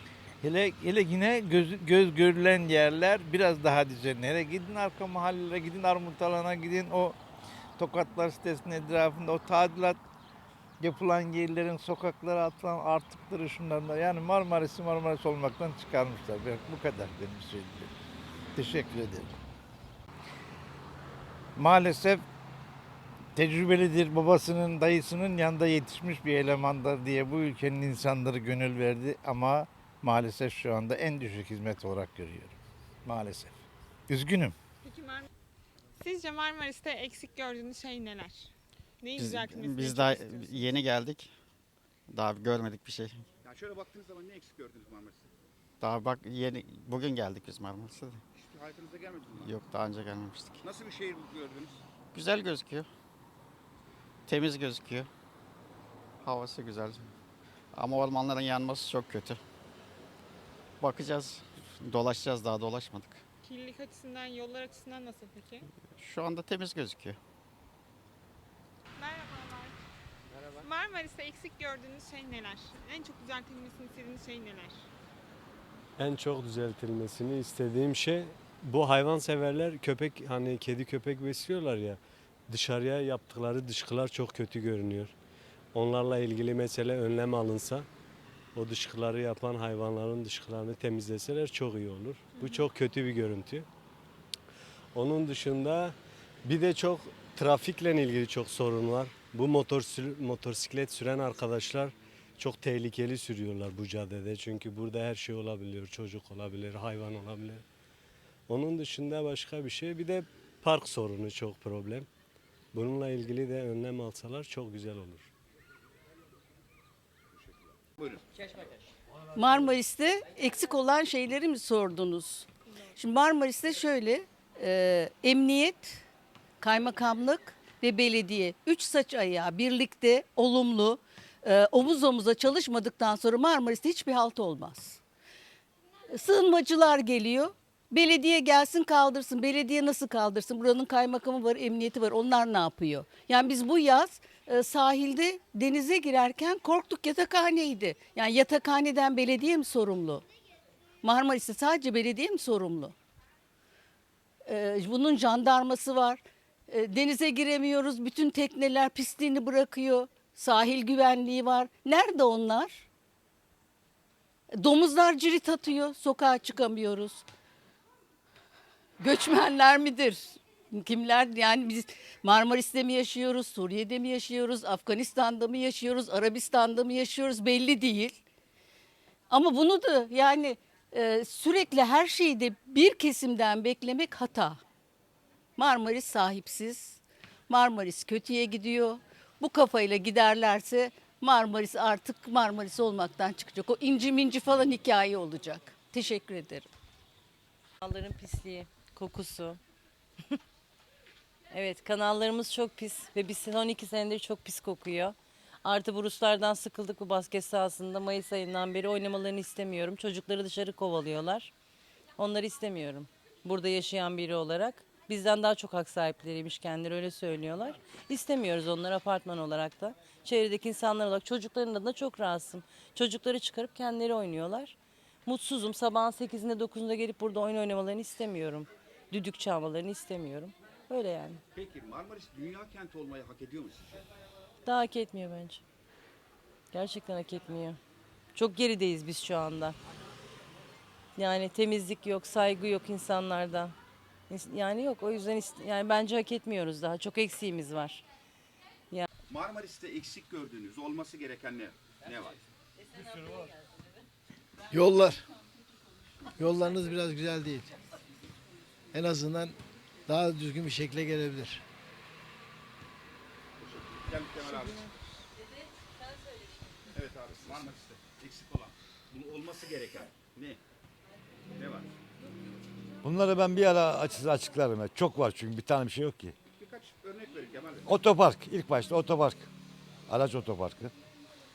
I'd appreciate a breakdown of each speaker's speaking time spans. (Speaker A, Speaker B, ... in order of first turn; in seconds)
Speaker A: 0.4-7.2, 7.8-10.0, 10.8-17.9, 18.6-19.4, 21.6-22.2, 23.4-33.5, 34.1-34.5
Speaker B: 34.8-35.3, 36.0-40.7, 63.4-65.7, 69.0-69.8, 70.6-74.9
Speaker C: 39.2-41.4, 42.1-43.2, 45.8-48.2, 49.4-50.6, 52.1-52.9, 54.3-55.1, 56.2-57.1, 57.7-59.4, 60.8-63.2, 66.0-67.2
Speaker D: 43.5-45.3, 48.4-49.5, 50.6-51.8, 117.4-118.2, 231.6-234.0, 249.3-252.4, 263.6-264.9, 266.9-270.6, 271.6-271.9, 276.6-277.9
Speaker E: 76.0-85.1, 85.7-87.9, 88.5-93.7, 95.0-107.6, 108.5-112.1, 112.7-115.3
Speaker F: 119.3-126.0, 126.6-135.0, 136.1-150.2, 151.0-152.9, 154.5-162.9, 164.5-167.3, 169.0-178.2, 179.3-184.6, 185.6-196.7
Speaker G: 197.8-199.6, 201.5-211.5, 212.2-224.8, 225.3-231.4, 234.7-235.6, 236.7-237.8, 238.3-239.8, 241.2-243.8, 244.3-248.0
Speaker H: 254.7-255.2, 256.4-257.6, 258.9-259.5, 260.1-261.6
Speaker I: 273.0-276.4, 277.9-279.5, 280.1-280.9